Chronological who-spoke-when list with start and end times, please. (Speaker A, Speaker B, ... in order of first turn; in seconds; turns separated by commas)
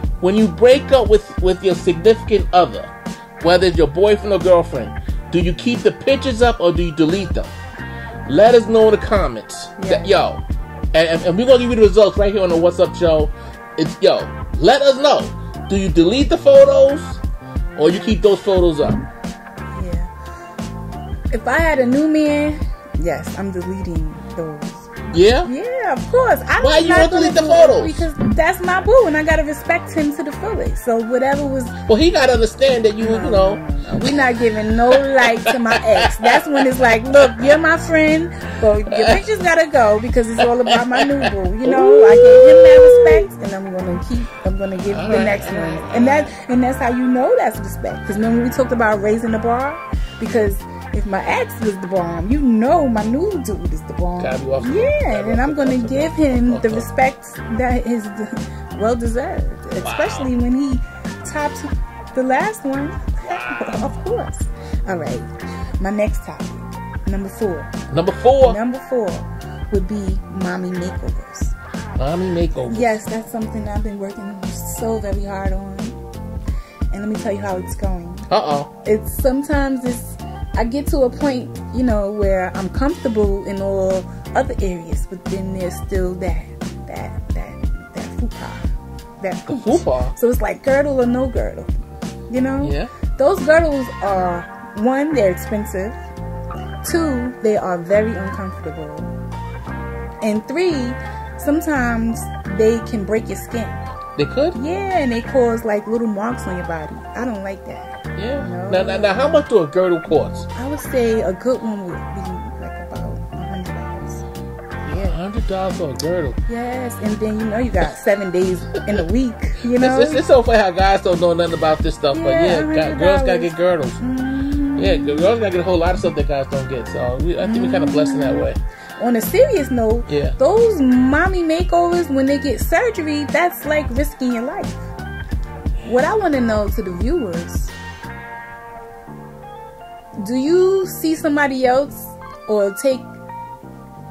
Speaker A: 0.2-7.5, Speaker A: 8.2-17.2, Speaker B: 9.8-10.2, Speaker A: 17.8-19.1, Speaker B: 19.7-20.1, Speaker B: 21.3-24.9, Speaker A: 25.1-25.5, Speaker B: 25.4-31.8, Speaker A: 26.6-28.1, Speaker A: 31.9-37.6, Speaker B: 33.0-67.7, Speaker A: 38.9-39.2, Speaker A: 40.4-43.3, Speaker A: 44.9-46.3, Speaker A: 54.2-56.9, Speaker A: 59.8-60.3, Speaker A: 63.2-63.9, Speaker A: 67.9-68.6, Speaker B: 68.4-71.5, Speaker A: 72.0-73.0, Speaker B: 72.7-76.0, Speaker B: 76.9-78.3, Speaker A: 78.3-78.7, Speaker B: 78.8-91.8, Speaker A: 89.5-90.1, Speaker B: 92.3-96.0, Speaker A: 92.6-92.9, Speaker B: 96.8-99.1, Speaker B: 100.2-103.8, Speaker A: 104.2-104.6, Speaker B: 104.5-109.2, Speaker A: 108.2-110.5, Speaker B: 110.5-114.2, Speaker A: 114.8-116.4, Speaker B: 114.9-115.2, Speaker B: 116.5-120.2, Speaker A: 119.6-124.0, Speaker B: 122.1-125.3, Speaker A: 124.8-128.6, Speaker B: 127.4-134.8, Speaker A: 130.1-130.4, Speaker B: 135.8-137.7, Speaker B: 140.2-143.1